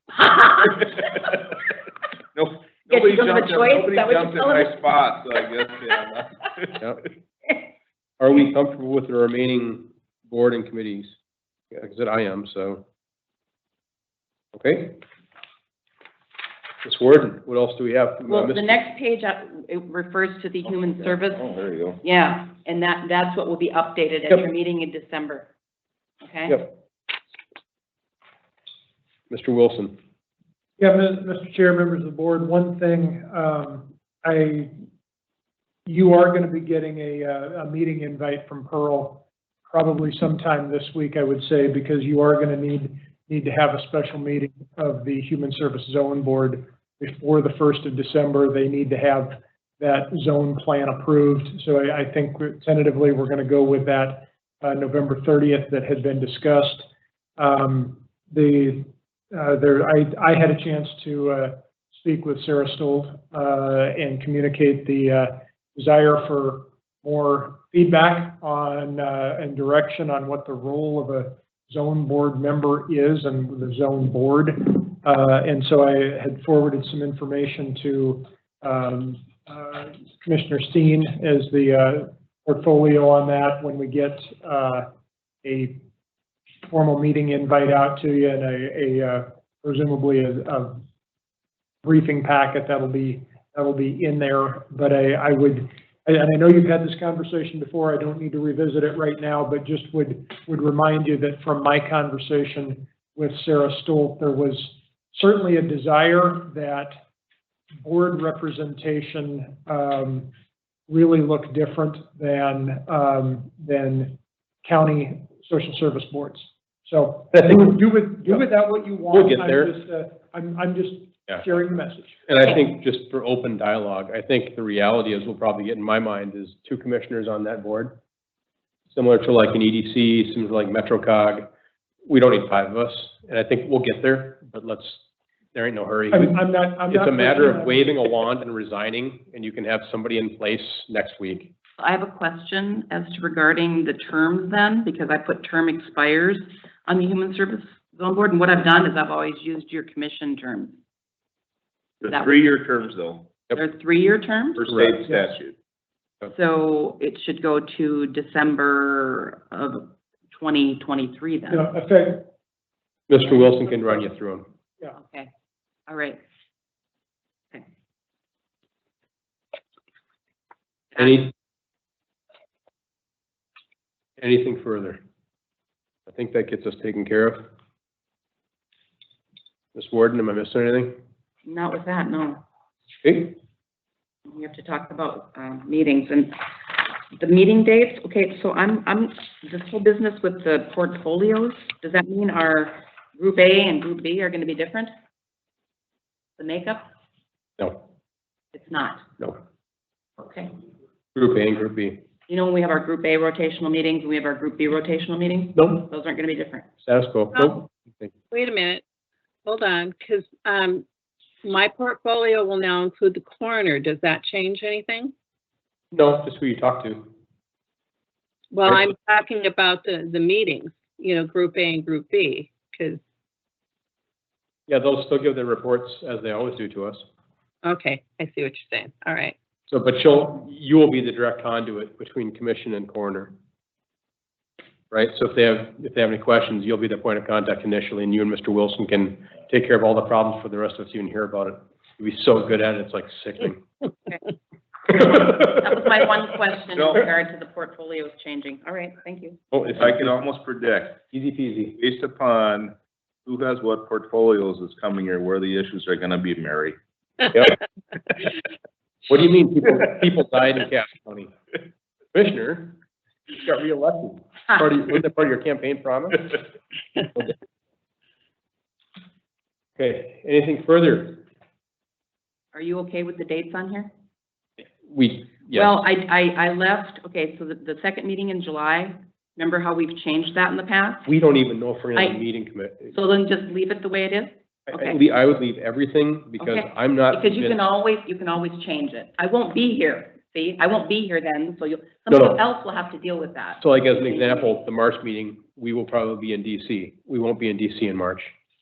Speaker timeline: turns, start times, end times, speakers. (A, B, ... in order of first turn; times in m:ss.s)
0:00.1-0:01.1 A
0:02.3-0:06.8 B
0:02.9-0:04.9 A
0:08.2-0:11.1 C
0:11.7-0:12.8 C
0:14.5-0:15.0 C
0:16.8-0:18.8 C
0:18.3-0:21.5 A
0:21.3-0:22.0 B
0:22.0-0:25.5 A
0:26.2-0:26.6 A
0:29.3-0:30.0 C
0:30.8-0:34.8 D
0:35.8-1:24.9 D
1:25.4-1:25.8 D
1:26.7-1:30.8 D
1:31.8-1:47.0 D
1:47.8-1:50.3 D
1:50.9-2:02.2 D
1:59.1-1:59.7 C
2:02.3-2:08.0 C
2:08.9-2:11.5 C
2:12.0-2:15.0 C
2:15.5-2:21.5 C
2:16.1-2:18.0 D
2:21.8-2:30.7 A
2:32.0-2:33.3 B
2:32.0-2:32.5 A
2:33.5-2:34.7 A
2:34.5-2:35.5 B
2:35.0-2:35.3 D
2:36.2-2:41.6 A
2:41.5-2:42.3 D
2:43.1-2:44.4 C
2:44.9-2:45.3 A
2:45.9-2:46.2 A
2:51.0-2:51.3 C
2:54.2-2:55.0 C
2:56.1-2:57.5 C
2:59.7-3:01.0 C
3:01.4-3:02.4 A
3:03.0-3:03.4 C
3:04.3-3:06.4 A
3:07.1-3:14.9 A
3:16.4-3:16.8 A
3:18.5-3:19.0 A
3:20.2-3:20.5 A
3:21.1-3:22.0 C
3:22.3-3:26.7 A
3:25.5-3:25.9 C
3:26.8-3:28.1 C
3:28.3-3:28.8 E
3:29.4-3:30.8 E
3:31.4-3:35.1 E
3:35.9-3:37.1 C
3:38.5-3:43.0 E
3:44.7-3:47.0 C
3:47.6-3:49.3 E
3:49.7-3:53.3 C
3:54.9-4:03.6 C
4:04.9-4:09.4 A
4:06.7-4:07.0 B
4:09.5-4:10.1 C
4:09.7-4:11.0 B
4:11.1-4:11.8 C
4:11.8-4:16.8 B
4:17.3-4:17.6 C
4:19.1-4:21.3 C
4:22.1-4:22.8 C
4:23.3-4:26.4 C
4:29.8-4:31.2 C
4:32.5-4:33.9 A
4:34.9-4:35.8 C
4:35.5-4:41.1 A
4:41.0-4:42.9 C
4:42.9-4:45.0 A
4:44.7-4:47.6 C
4:46.4-4:54.5 A
4:52.1-4:52.4 C
4:53.6-4:58.3 C